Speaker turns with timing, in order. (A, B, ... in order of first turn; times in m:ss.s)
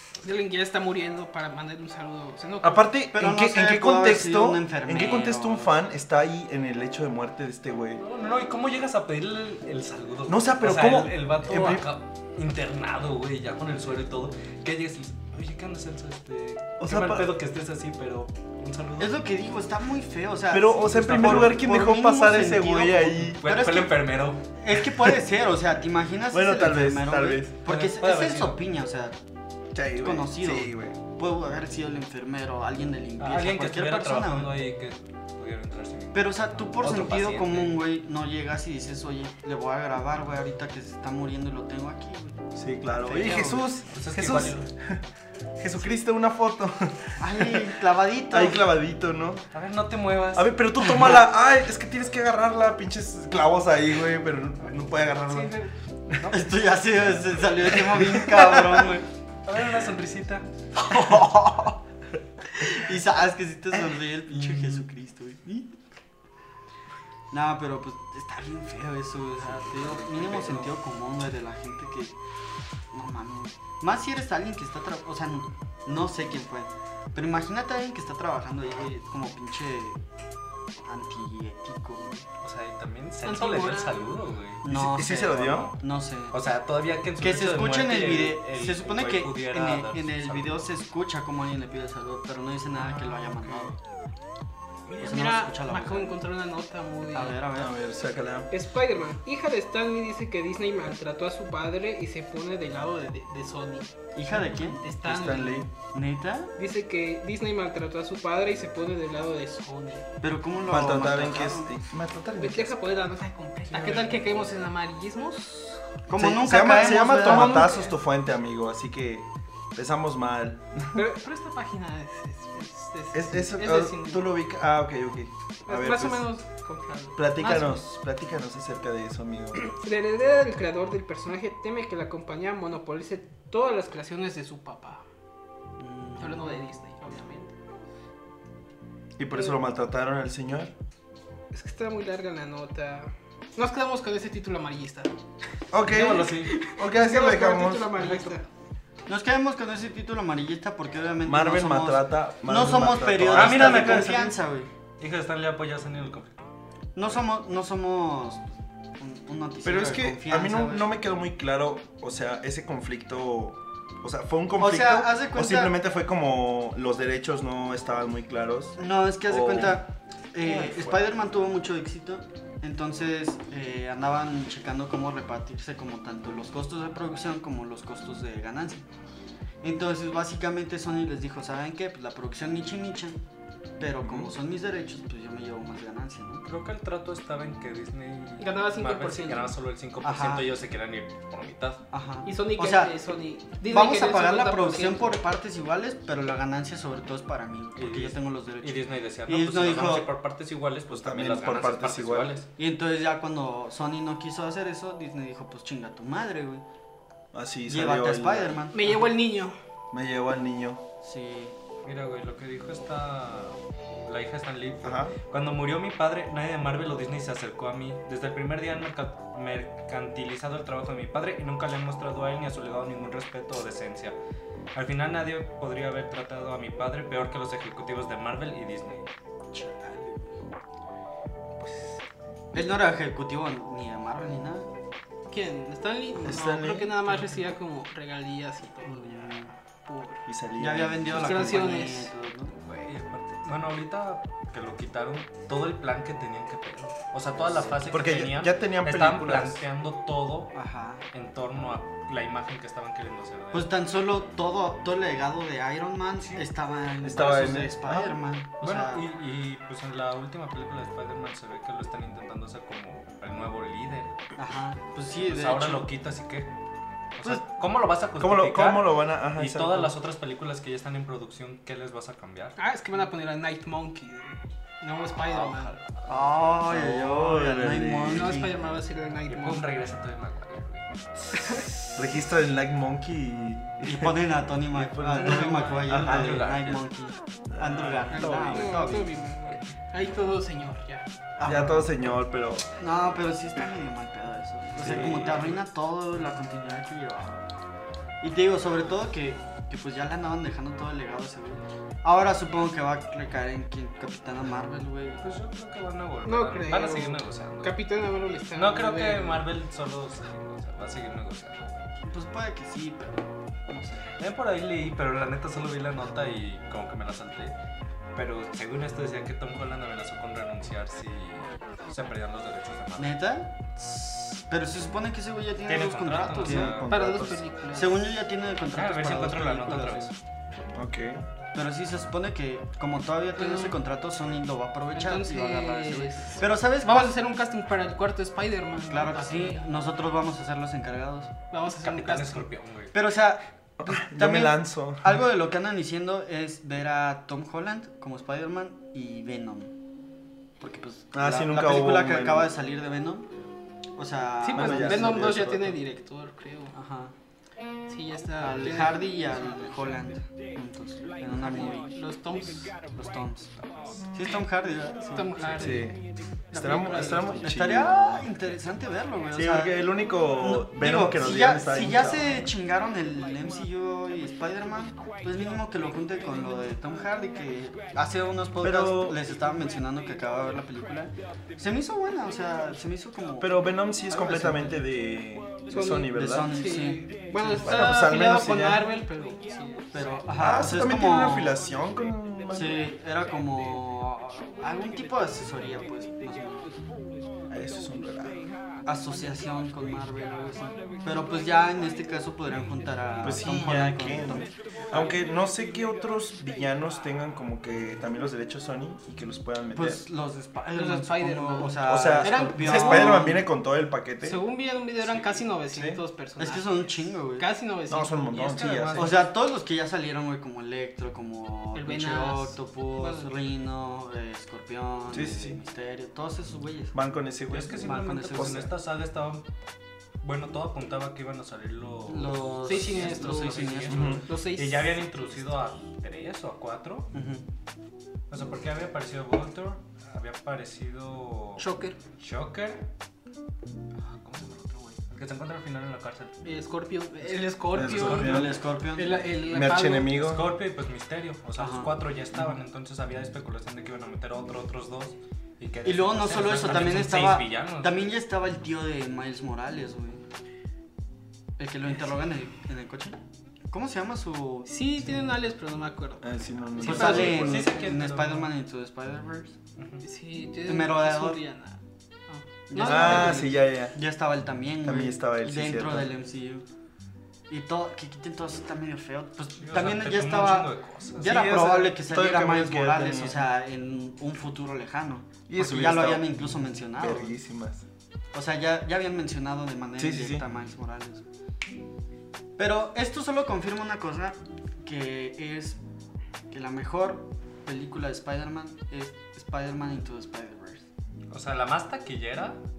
0:00.2-0:02.9 A
0:02.6-0:08.0 B
0:03.1-0:05.7 C
0:08.0-0:19.2 D
0:10.3-0:11.8 B
0:16.8-0:17.3 B
0:19.0-0:29.2 C
0:20.5-0:23.4 B
0:20.9-0:21.6 D
0:23.4-0:24.4 D
0:26.3-0:27.6 B
0:27.6-0:28.6 D
0:29.7-0:31.0 B
0:30.0-0:34.6 C
0:33.2-0:37.8 D
0:36.1-0:43.6 C
0:42.6-0:45.0 B
0:43.9-0:44.7 D
0:45.6-0:47.7 B
0:47.2-0:48.7 C
0:48.3-0:49.5 B
0:49.5-0:50.5 D
0:50.3-0:55.6 B
0:56.2-0:56.6 D
0:56.3-0:59.0 C
0:58.0-0:58.7 B
0:59.4-1:00.5 D
1:00.8-1:01.8 C
1:02.5-1:05.7 C
1:07.3-1:12.2 C
1:09.9-1:10.7 D
1:12.9-1:20.0 C
1:20.8-1:22.2 C
1:22.4-1:24.6 D
1:23.2-1:24.2 A
1:24.6-1:26.4 C
1:24.7-1:25.7 B
1:26.3-1:30.7 D
1:27.2-1:33.8 C
1:34.9-1:37.4 A
1:35.0-1:36.2 C
1:37.1-1:37.7 C
1:37.5-1:38.5 B
1:38.5-1:43.9 A
1:44.2-1:44.8 C
1:44.8-1:45.7 A
1:45.0-1:45.7 B
1:45.9-1:46.5 C
1:46.6-1:50.1 A
1:50.2-1:51.7 C
1:50.7-1:52.8 B
1:52.4-1:55.8 A
1:53.7-1:54.2 B
1:56.1-1:57.7 C
1:56.1-2:01.0 B
1:57.2-1:58.0 A
2:01.0-2:04.2 A
2:03.1-2:06.3 B
2:05.7-2:07.8 A
2:07.2-2:09.7 B
2:09.6-2:15.0 A
2:15.8-2:16.6 C
2:16.2-2:17.6 A
2:19.2-2:20.7 B
2:21.5-2:25.2 A
2:25.7-2:28.2 B
2:25.9-2:26.6 D
2:25.9-2:28.4 A
2:28.0-2:28.3 D
2:29.1-2:34.7 C
2:31.2-2:34.1 B
2:33.3-2:34.4 D
2:35.0-2:36.5 D
2:37.0-2:38.4 C
2:39.0-2:40.9 C
2:39.6-2:49.8 B
2:44.6-2:45.8 C
2:48.8-2:58.8 C
2:50.4-2:51.0 B
2:59.6-3:03.2 C
3:03.8-3:06.5 C
3:06.4-3:11.8 D
3:08.4-3:09.5 A
3:10.0-3:10.6 C
3:11.9-3:13.0 C
3:12.2-3:15.2 A
3:13.6-3:20.1 C
3:17.8-3:22.5 D
3:20.9-3:22.4 B
3:22.6-3:26.6 C
3:27.3-3:28.6 B
3:27.7-3:29.0 C
3:28.7-3:29.6 A
3:29.9-3:30.8 B
3:31.0-3:31.6 C
3:31.8-3:44.2 D
3:34.8-3:35.2 B
3:44.7-3:49.1 D
3:49.5-3:50.4 C
3:51.6-3:51.9 B
3:52.5-3:54.7 C
3:55.3-3:59.3 A
3:56.2-3:57.2 B
3:58.8-3:59.5 C
3:59.8-4:00.3 A
4:00.3-4:01.7 B
4:00.6-4:02.5 C
4:01.1-4:02.1 A
4:02.6-4:10.5 D
4:07.3-4:07.9 C
4:07.9-4:09.6 B
4:10.5-4:11.0 C
4:11.1-4:13.7 D
4:13.5-4:19.0 C
4:17.0-4:18.2 B
4:18.6-4:24.2 D
4:24.4-4:25.9 C
4:25.2-4:26.5 D
4:27.2-4:32.6 D
4:28.2-4:30.0 B
4:32.6-4:35.7 A
4:35.2-4:36.4 D
4:36.1-4:38.6 C
4:36.6-4:38.4 B
4:38.1-4:39.7 A
4:39.3-4:40.8 D
4:41.3-4:41.8 A
4:41.9-4:44.2 B
4:43.8-4:49.2 C
4:44.7-4:46.3 B
4:45.2-4:46.0 A
4:45.4-4:46.9 D
4:47.5-4:48.5 B
4:47.8-4:48.8 D
4:48.1-4:51.0 A
4:51.4-4:51.9 C
4:51.4-4:52.7 B
4:52.8-4:57.5 C
4:54.8-4:55.6 B
4:54.8-4:55.6 D
4:58.2-5:05.2 C
5:05.2-5:07.8 D
5:06.2-5:09.4 A
5:08.5-5:11.8 D
5:12.0-5:14.1 C
5:14.2-5:17.6 D
5:18.2-5:23.2 D
5:23.0-5:26.8 C
5:25.7-5:27.0 D
5:26.4-5:27.4 B
5:26.9-5:28.1 A
5:27.7-5:30.1 C
5:28.7-5:30.2 D
5:30.7-5:31.2 B
5:31.5-5:37.1 C
5:33.4-5:33.8 A
5:34.9-5:39.7 A
5:38.9-5:41.3 C
5:41.5-5:42.5 A
5:41.8-5:42.9 D
5:42.9-5:49.7 C
5:43.8-5:45.2 B
5:50.6-5:53.3 C
5:51.1-5:52.5 B
5:54.0-5:55.4 C
5:54.4-5:56.8 A
5:54.5-5:55.8 B
5:56.7-5:57.1 C
5:57.9-5:59.2 A
5:58.4-6:01.9 C
6:01.3-6:02.7 A
6:02.9-6:05.8 C
6:05.1-6:06.0 A
6:05.6-6:06.0 B
6:06.5-6:07.4 A
6:06.5-6:08.3 B
6:07.4-6:24.8 C
6:09.3-6:12.3 B
6:18.6-6:19.2 B
6:23.4-6:26.5 B
6:25.7-6:29.9 A
6:26.0-6:27.6 C
6:27.5-6:28.9 B
6:29.9-6:31.6 C
6:30.4-6:32.9 B
6:32.5-6:36.7 C
6:37.5-6:38.4 B
6:38.8-6:44.5 C
6:43.2-6:50.0 B
6:49.7-6:53.5 C
6:50.7-6:53.4 A
6:51.9-6:54.4 B
6:54.2-6:56.8 A
6:55.1-6:55.4 D
6:55.7-6:56.0 B
6:56.4-6:57.5 C
6:57.4-6:58.9 A
6:57.9-6:59.2 B
6:58.4-6:59.2 D
6:59.0-7:07.0 C
7:01.7-7:03.3 A
7:05.1-7:05.6 B
7:06.9-7:08.7 B
7:07.5-7:09.5 D
7:07.8-7:08.7 C
7:10.2-7:17.1 D
7:12.1-7:14.3 C
7:12.7-7:15.0 A
7:13.9-7:14.2 B
7:17.1-7:17.4 C
7:18.3-7:21.7 D
7:21.6-7:22.0 A
7:22.2-7:22.8 D
7:24.0-7:26.4 D
7:26.4-7:30.2 A
7:27.7-7:28.6 B
7:27.8-7:29.2 C
7:29.4-7:30.5 B
7:30.1-7:38.0 D
7:31.6-7:32.0 C
7:35.8-7:40.2 C
7:41.6-7:43.2 C
7:43.7-7:44.7 C
7:44.7-7:47.6 A
7:46.2-7:47.7 B
7:46.8-7:49.6 C
7:47.1-7:48.5 D
7:49.8-7:50.0 D
7:50.0-7:53.6 A
7:50.7-7:51.4 C
7:52.7-7:56.6 C
7:52.8-7:54.0 B
7:54.8-7:56.1 B
7:57.5-8:07.3 C
7:59.6-8:01.5 D
8:01.2-8:03.4 B
8:05.5-8:06.3 B
8:07.0-8:07.8 B
8:08.3-8:11.2 C
8:10.0-8:10.4 B
8:12.6-8:15.8 C
8:16.5-8:20.9 C
8:21.3-8:22.6 D